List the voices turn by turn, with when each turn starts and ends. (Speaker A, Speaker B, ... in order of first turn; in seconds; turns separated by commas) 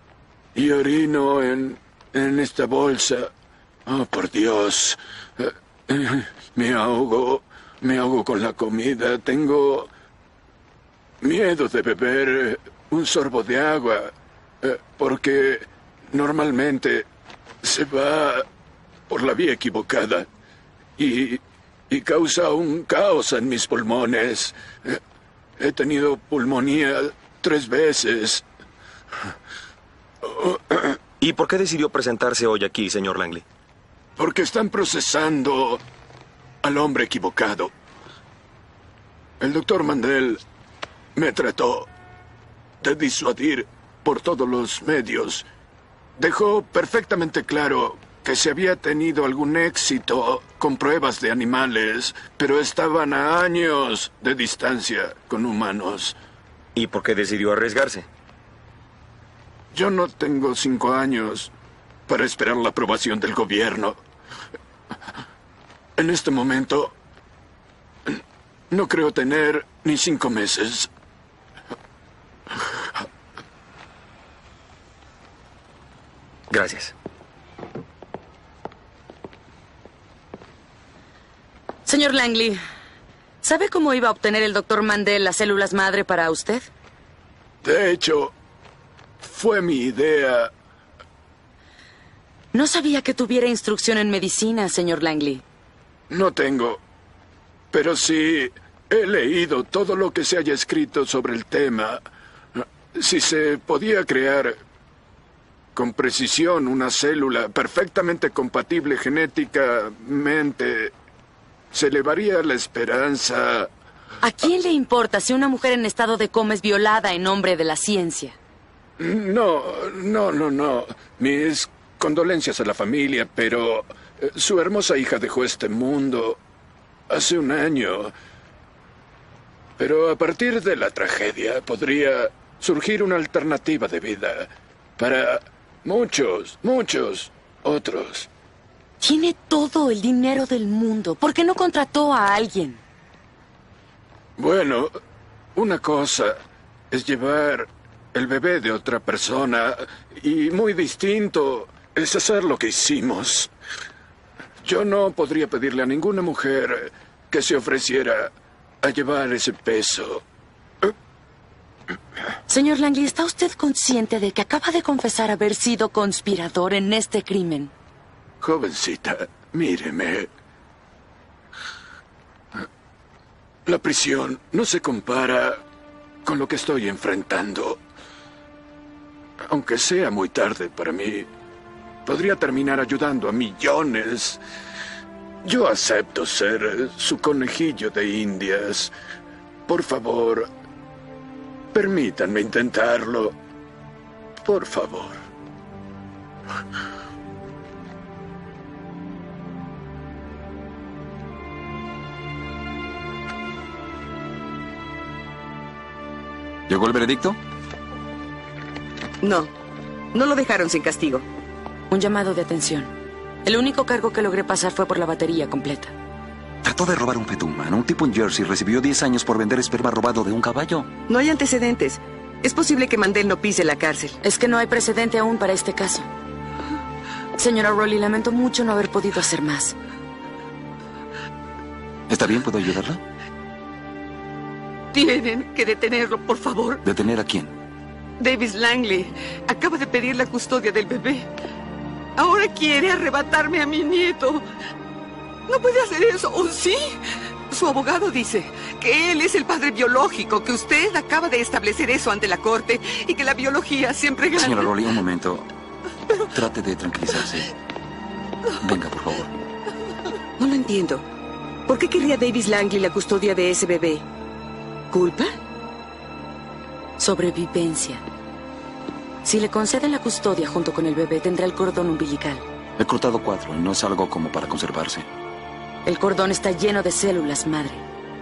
Speaker A: 0.5-3.3, Speaker A: 3.9-9.9, Speaker A: 11.2-17.1, Speaker A: 17.6-18.4, Speaker A: 19.1-20.3, Speaker A: 21.0-25.0, Speaker A: 25.6-28.4, Speaker A: 30.2-30.9, Speaker B: 31.2-33.4, Speaker A: 34.2-35.8, Speaker A: 36.6-37.7, Speaker A: 39.4-40.4, Speaker A: 41.1-41.9, Speaker A: 42.8-45.4, Speaker A: 46.2-56.1, Speaker B: 56.7-58.0, Speaker A: 59.7-61.5, Speaker A: 62.1-64.0, Speaker A: 66.0-66.9, Speaker A: 68.7-70.9, Speaker B: 76.5-76.9, Speaker C: 81.8-82.6, Speaker C: 83.4-86.7, Speaker A: 87.6-88.3, Speaker A: 89.2-90.5, Speaker C: 92.5-95.4, Speaker A: 96.1-96.8, Speaker A: 97.7-102.0, Speaker A: 102.5-104.6, Speaker A: 105.7-110.9, Speaker A: 111.7-113.7, Speaker C: 114.2-118.3, Speaker A: 119.0-126.4, Speaker A: 127.1-128.1, Speaker A: 129.8-138.3, Speaker C: 139.0-142.8, Speaker A: 144.4-144.9, Speaker A: 145.5-146.4, Speaker A: 146.9-153.5, Speaker A: 154.6-160.2, Speaker C: 162.5-167.7, Speaker A: 168.4-170.3, Speaker A: 173.7-175.6, Speaker A: 176.2-177.8, Speaker A: 179.5-181.3, Speaker A: 182.0-184.4, Speaker A: 185.4-188.9, Speaker A: 189.7-190.5, Speaker A: 191.7-193.3, Speaker A: 194.4-195.2, Speaker D: 206.7-207.4, Speaker E: 209.2-209.5, Speaker E: 210.1-211.2, Speaker C: 211.9-212.9, Speaker C: 213.4-215.9, Speaker D: 216.6-220.9, Speaker E: 221.1-224.2, Speaker C: 224.2-226.1, Speaker C: 227.4-229.7, Speaker D: 232.1-233.0, Speaker F: 234.9-236.8, Speaker D: 236.8-237.5, Speaker F: 238.2-241.3, Speaker F: 242.2-244.4, Speaker F: 245.5-247.0, Speaker F: 247.5-254.7, Speaker D: 254.3-255.5, Speaker D: 256.3-257.5, Speaker D: 258.6-259.3, Speaker E: 260.4-261.0, Speaker E: 261.7-264.0, Speaker E: 264.9-265.3, Speaker C: 267.0-268.0, Speaker C: 269.2-272.4, Speaker D: 272.8-275.1, Speaker C: 275.8-277.8